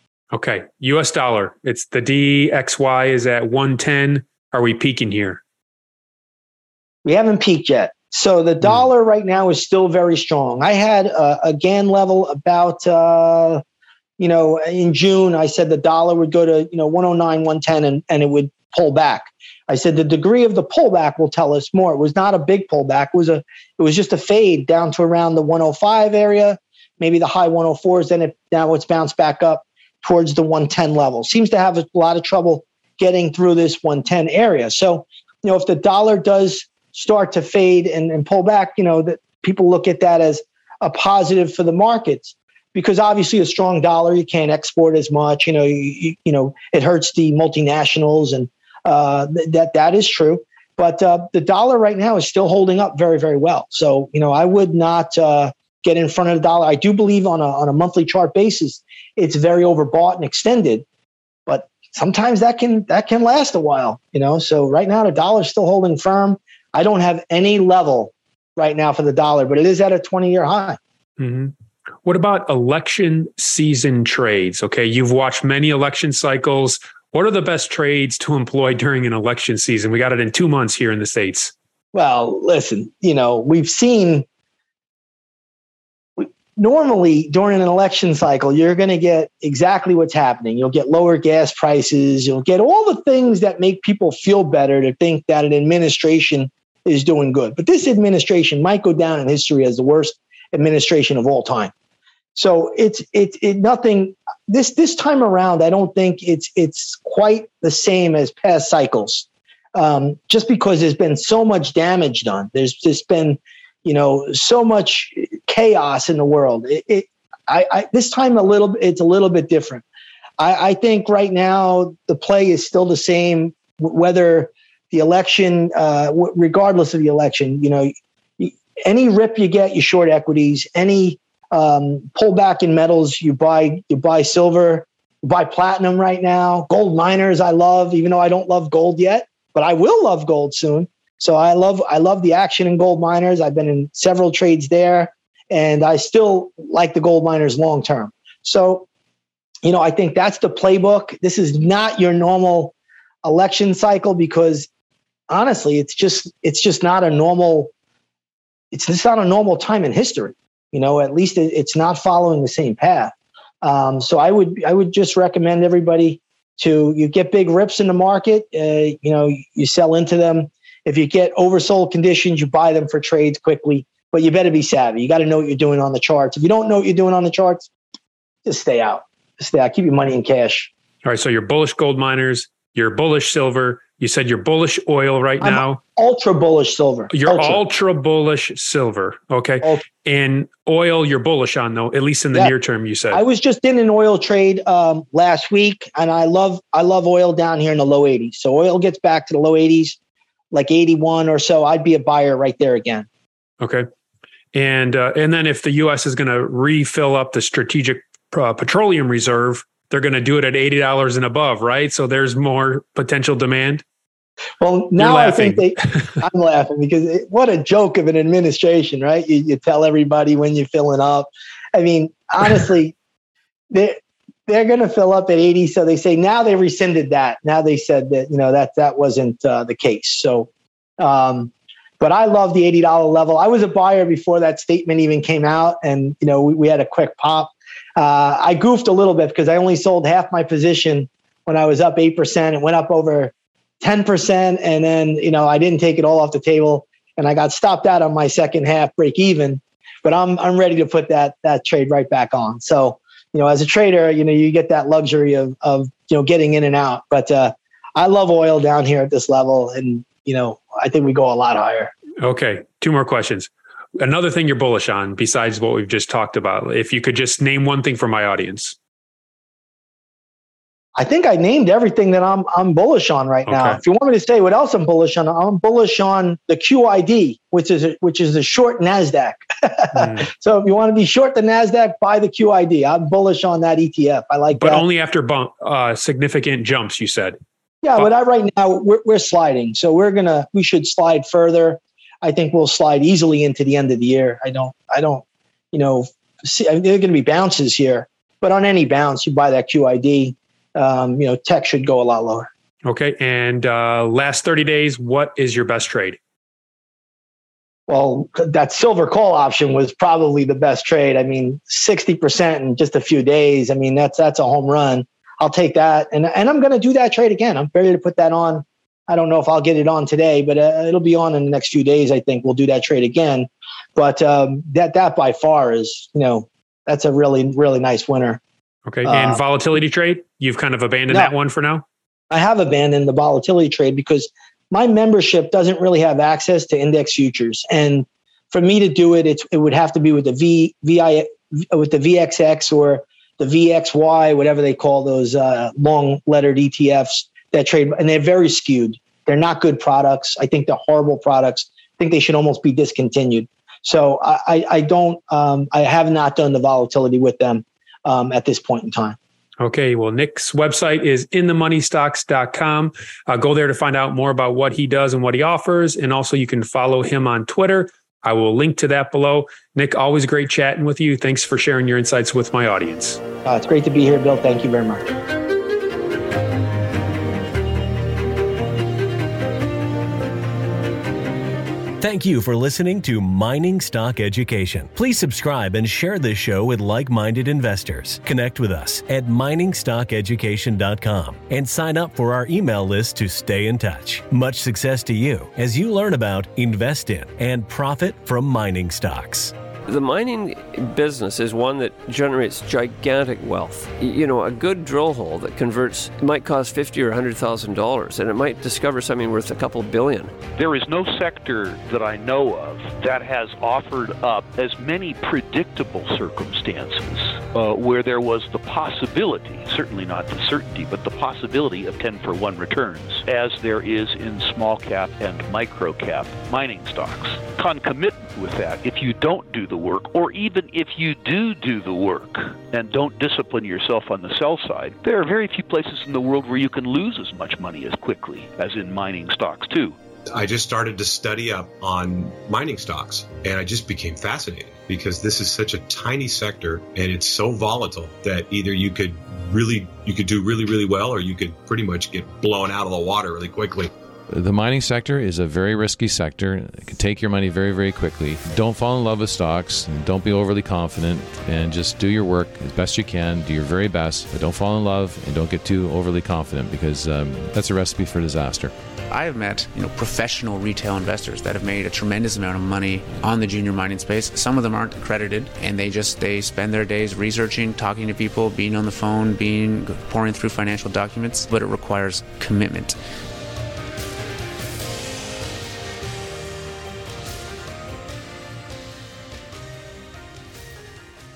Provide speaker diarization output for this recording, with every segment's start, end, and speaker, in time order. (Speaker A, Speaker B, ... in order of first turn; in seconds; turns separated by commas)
Speaker A: 0.3-5.4, Speaker B: 7.0-13.6, Speaker B: 14.2-60.9, Speaker B: 61.5-70.8, Speaker A: 71.2-71.5, Speaker A: 72.0-81.5, Speaker B: 81.9-84.2, Speaker B: 86.2-101.7, Speaker B: 102.3-119.8, Speaker B: 120.4-148.9, Speaker B: 149.6-154.7, Speaker B: 155.3-157.7, Speaker B: 158.7-177.7, Speaker B: 178.4-180.7, Speaker A: 181.1-185.8, Speaker B: 185.4-187.6, Speaker A: 187.1-193.2, Speaker B: 193.1-200.0, Speaker B: 200.5-203.1, Speaker A: 204.5-213.8, Speaker B: 214.6-222.9, Speaker A: 215.0-216.0, Speaker B: 224.5-261.9, Speaker A: 262.2-268.8, Speaker B: 271.0-284.9, Speaker A: 273.5-273.8, Speaker A: 280.0-280.2, Speaker A: 284.6-287.4, Speaker B: 287.8-302.5, Speaker A: 302.9-306.2, Speaker B: 307.9-328.4, Speaker A: 328.9-331.8, Speaker B: 329.0-329.4, Speaker B: 332.3-359.2, Speaker A: 359.6-373.2, Speaker B: 373.4-375.1, Speaker C: 382.0-399.5, Speaker D: 399.9-410.4, Speaker E: 410.6-440.0, Speaker F: 440.3-453.9, Speaker G: 454.3-468.7, Speaker H: 469.1-483.0